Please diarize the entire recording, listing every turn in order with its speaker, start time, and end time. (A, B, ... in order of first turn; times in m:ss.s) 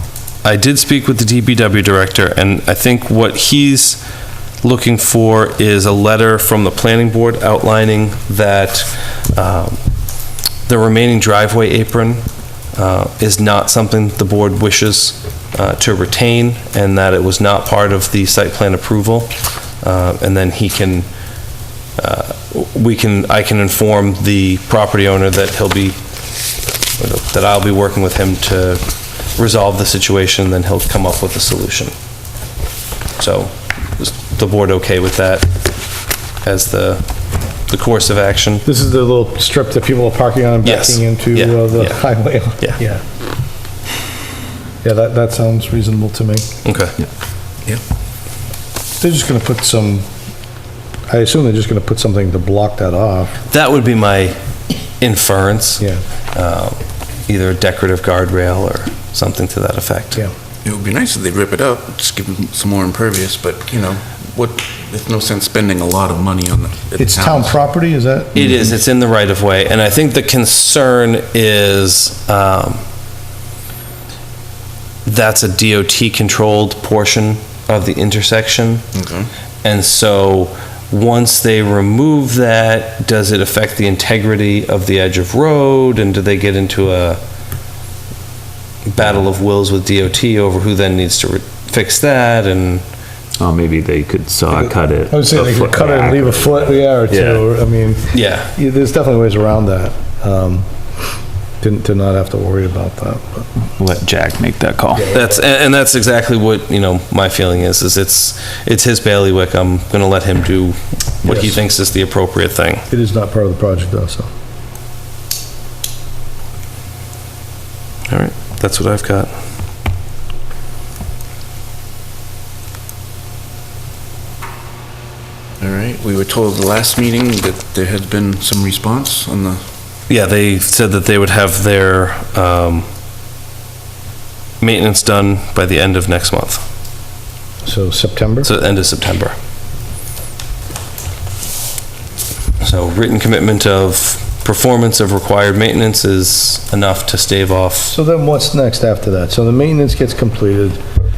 0:00.4-0:04.0 A
0:04.6-0:09.8 A
0:10.7-0:12.2 A
0:12.8-0:21.1 A
0:22.0-0:26.0 A
0:27.0-0:28.8 A
0:29.4-0:31.9 A
0:33.2-0:35.5 A
0:36.4-0:37.0 A
0:37.7-0:38.6 A
0:38.6-0:43.0 B
0:40.6-0:42.0 A
0:44.8-0:46.5 B
0:46.6-0:47.0 A
0:49.0-0:50.1 B
0:51.1-0:53.3 B
0:53.5-0:54.4 A
0:55.0-0:55.8 A
0:56.4-1:00.2 A
1:00.6-1:07.6 C
1:07.0-1:08.7 B
1:08.4-1:12.8 A
1:15.0-1:18.9 A
1:19.0-1:19.3 C
1:19.6-1:27.2 A
1:28.9-1:32.8 A
1:33.4-1:37.4 D
1:35.1-1:40.7 B
1:38.1-1:38.5 A
1:41.6-1:43.5 B
1:43.7-1:45.1 D
1:45.0-1:52.8 A
1:51.2-1:51.6 B
1:52.9-1:54.3 B
1:58.1-1:59.3 A
2:05.6-2:09.6 C
2:10.1-2:12.9 A
2:14.6-2:16.6 A
2:17.6-2:18.5 B
2:18.4-2:19.3 A
2:22.6-2:28.0 A
2:27.9-2:30.8 B